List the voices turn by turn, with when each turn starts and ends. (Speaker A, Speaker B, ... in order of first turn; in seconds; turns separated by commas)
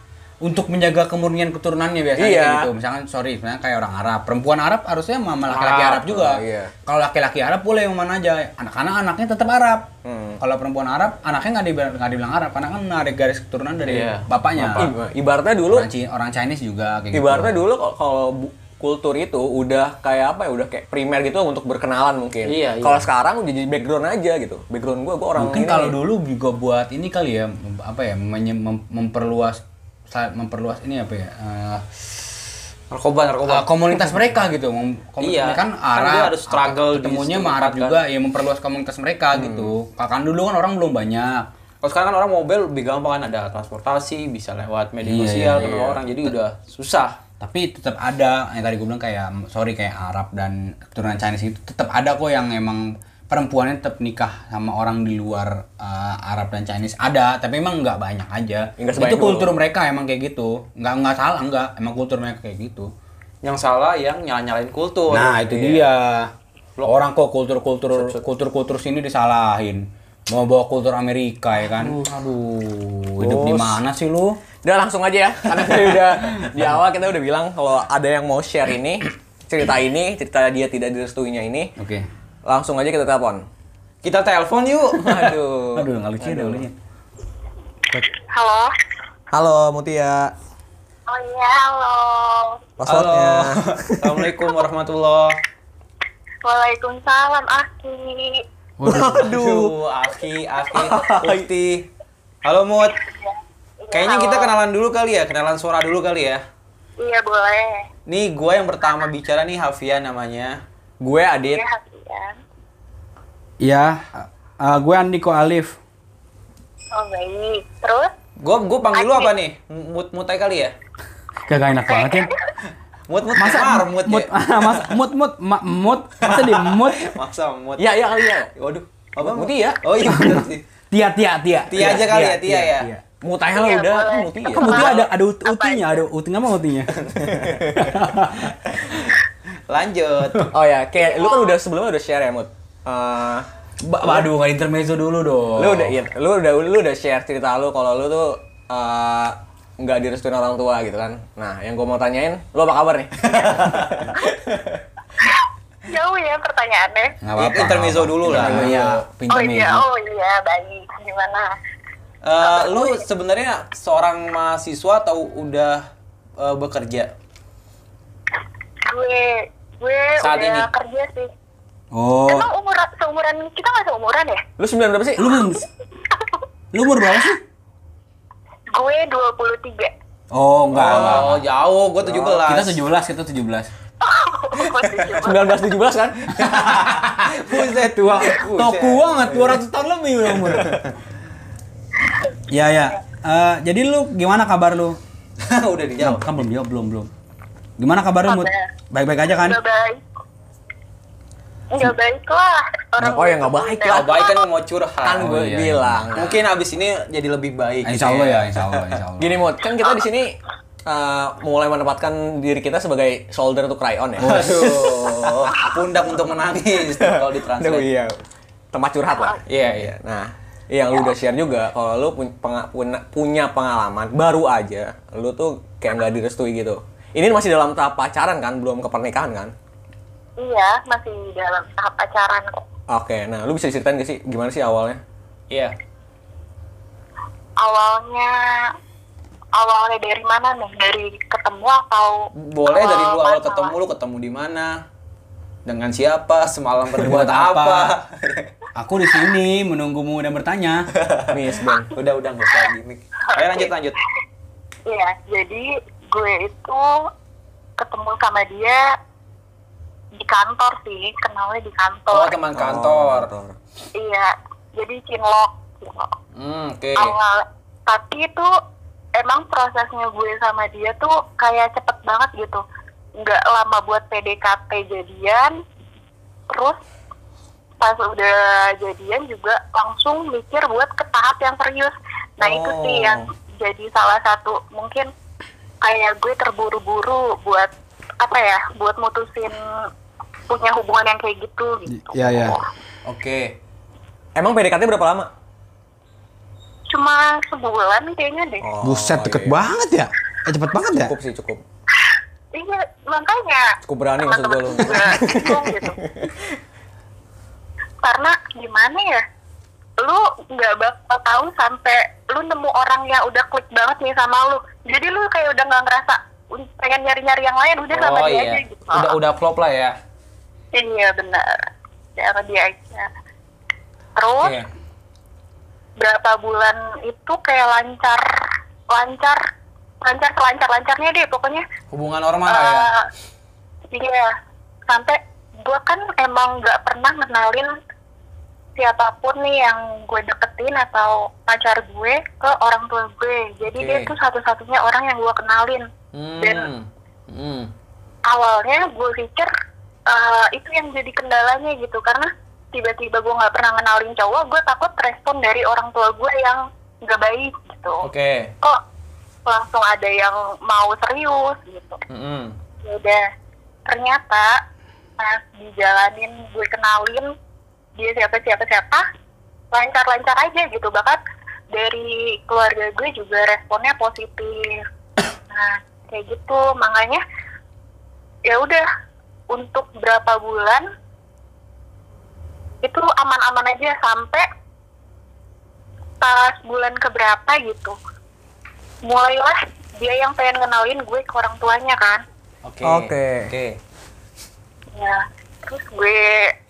Speaker A: 0.4-9.9, Speaker B: 2.2-2.7, Speaker B: 5.5-6.7, Speaker C: 5.5-6.0, Speaker B: 10.0-10.4, Speaker A: 10.4-14.9, Speaker C: 13.8-14.2, Speaker B: 14.6-15.9, Speaker A: 15.7-17.6, Speaker B: 17.1-26.0, Speaker C: 22.4-23.1, Speaker A: 25.4-31.9, Speaker C: 32.9-34.2, Speaker A: 33.5-41.5, Speaker C: 35.2-38.0, Speaker B: 39.3-39.7, Speaker C: 41.8-47.2, Speaker A: 45.0-45.7, Speaker B: 45.5-46.0, Speaker A: 47.4-62.9, Speaker B: 58.8-59.5, Speaker C: 63.4-65.9, Speaker A: 65.1-66.3, Speaker A: 66.8-74.4, Speaker C: 67.9-68.2, Speaker B: 73.2-73.8, Speaker B: 74.6-81.7, Speaker A: 81.8-82.0, Speaker B: 82.5-83.4, Speaker C: 84.0-85.4, Speaker B: 85.0-86.6, Speaker A: 85.7-86.7, Speaker D: 88.3-88.7, Speaker B: 89.3-90.3, Speaker D: 91.1-92.6, Speaker B: 92.8-94.3, Speaker C: 92.9-95.3, Speaker D: 96.4-98.4, Speaker A: 98.8-99.3, Speaker B: 98.8-99.7, Speaker C: 99.1-101.9, Speaker B: 100.7-101.5, Speaker C: 102.4-103.0, Speaker D: 102.9-104.5, Speaker C: 103.9-106.4, Speaker D: 107.0-107.9, Speaker C: 108.1-110.6, Speaker B: 111.0-111.6, Speaker D: 111.4-112.4, Speaker A: 113.6-115.8, Speaker D: 116.9-118.1, Speaker C: 118.4-120.7, Speaker D: 118.9-119.3, Speaker A: 121.5-122.3, Speaker D: 121.9-122.5, Speaker C: 123.1-125.0, Speaker A: 123.3-127.1, Speaker C: 126.2-130.6, Speaker B: 127.8-128.5, Speaker B: 129.2-129.8, Speaker A: 130.0-133.0, Speaker C: 131.7-132.9, Speaker B: 133.2-134.9, Speaker D: 133.5-136.1, Speaker A: 134.6-136.9, Speaker C: 134.7-135.1, Speaker C: 137.0-137.7, Speaker A: 137.7-138.6, Speaker C: 139.7-140.5, Speaker B: 140.5-143.5, Speaker D: 141.0-141.6, Speaker A: 143.8-145.9, Speaker B: 144.0-144.3, Speaker B: 145.6-154.8, Speaker C: 153.2-154.1, Speaker D: 155.2-157.1, Speaker A: 157.2-159.8, Speaker C: 157.4-158.9, Speaker B: 158.2-159.0, Speaker D: 159.3-161.5, Speaker C: 162.2-165.8, Speaker D: 162.4-163.0, Speaker C: 166.4-167.1, Speaker D: 168.8-171.3, Speaker C: 170.2-170.7, Speaker A: 171.9-172.5, Speaker D: 172.3-174.4, Speaker B: 174.6-175.5, Speaker A: 175.2-175.7, Speaker D: 176.1-176.4, Speaker A: 176.7-177.4, Speaker D: 178.7-179.9, Speaker A: 180.3-181.4, Speaker B: 180.7-181.4, Speaker C: 180.7-182.8, Speaker B: 182.1-182.4, Speaker A: 182.3-183.7, Speaker D: 184.0-185.6, Speaker B: 185.1-186.4, Speaker A: 186.3-190.8, Speaker C: 186.4-189.5, Speaker C: 190.7-190.9, Speaker A: 192.5-195.0, Speaker C: 195.4-196.3, Speaker A: 196.0-197.1, Speaker A: 197.8-199.6, Speaker D: 198.2-198.7, Speaker D: 199.3-200.0, Speaker D: 201.7-204.4, Speaker B: 203.0-204.1, Speaker C: 203.8-205.2, Speaker B: 205.0-206.4, Speaker A: 205.1-206.1, Speaker C: 206.1-208.6, Speaker A: 207.8-209.4, Speaker B: 209.2-215.7, Speaker C: 214.2-217.9, Speaker A: 214.2-214.7, Speaker B: 216.8-218.2, Speaker B: 218.7-229.5, Speaker C: 219.5-219.9, Speaker D: 230.4-232.6, Speaker B: 232.9-235.0, Speaker C: 235.5-235.7, Speaker D: 237.6-238.7, Speaker D: 239.6-243.7, Speaker C: 242.4-244.8, Speaker C: 245.7-248.5, Speaker A: 247.0-247.9, Speaker A: 248.7-250.9, Speaker C: 251.0-251.4, Speaker B: 251.3-251.9, Speaker C: 251.9-253.9, Speaker D: 253.3-253.7, Speaker D: 254.9-257.0, Speaker D: 257.8-258.9, Speaker D: 260.1-262.3, Speaker C: 262.1-263.3, Speaker B: 262.5-263.6, Speaker D: 263.9-266.1, Speaker C: 266.4-267.1, Speaker D: 266.9-268.5, Speaker D: 269.2-272.6, Speaker D: 273.2-275.6, Speaker D: 276.5-276.8, Speaker D: 277.8-285.1, Speaker C: 282.4-283.2, Speaker D: 285.8-289.9, Speaker D: 290.5-292.6, Speaker A: 291.9-292.6, Speaker C: 293.0-293.5, Speaker B: 294.3-295.3, Speaker D: 296.9-298.7, Speaker B: 298.6-299.6, Speaker A: 298.8-301.1, Speaker B: 300.9-301.6, Speaker D: 302.5-306.0, Speaker B: 303.8-306.4, Speaker D: 308.0-309.2, Speaker D: 310.0-319.1, Speaker C: 317.9-319.9, Speaker D: 320.7-321.6, Speaker D: 322.2-323.1, Speaker D: 324.2-324.6, Speaker C: 324.4-324.7, Speaker D: 326.0-329.4, Speaker D: 330.0-331.6, Speaker C: 331.9-332.9, Speaker D: 332.5-333.1, Speaker D: 333.9-334.3, Speaker D: 334.9-337.8, Speaker D: 338.8-345.9, Speaker C: 343.8-344.1, Speaker C: 346.1-347.7, Speaker D: 346.4-346.7, Speaker D: 348.3-349.5, Speaker D: 350.1-358.1, Speaker C: 358.0-358.5, Speaker D: 359.4-362.0, Speaker C: 362.1-362.6, Speaker D: 362.8-363.2, Speaker D: 363.9-364.6, Speaker D: 365.2-367.3, Speaker D: 368.0-369.0, Speaker D: 369.7-371.2, Speaker D: 371.7-374.8, Speaker D: 375.5-377.2, Speaker D: 378.4-378.8, Speaker D: 379.5-380.9, Speaker D: 382.8-384.5, Speaker D: 386.2-387.9, Speaker D: 389.0-392.2, Speaker C: 392.6-393.8, Speaker B: 392.8-393.5, Speaker D: 394.9-396.5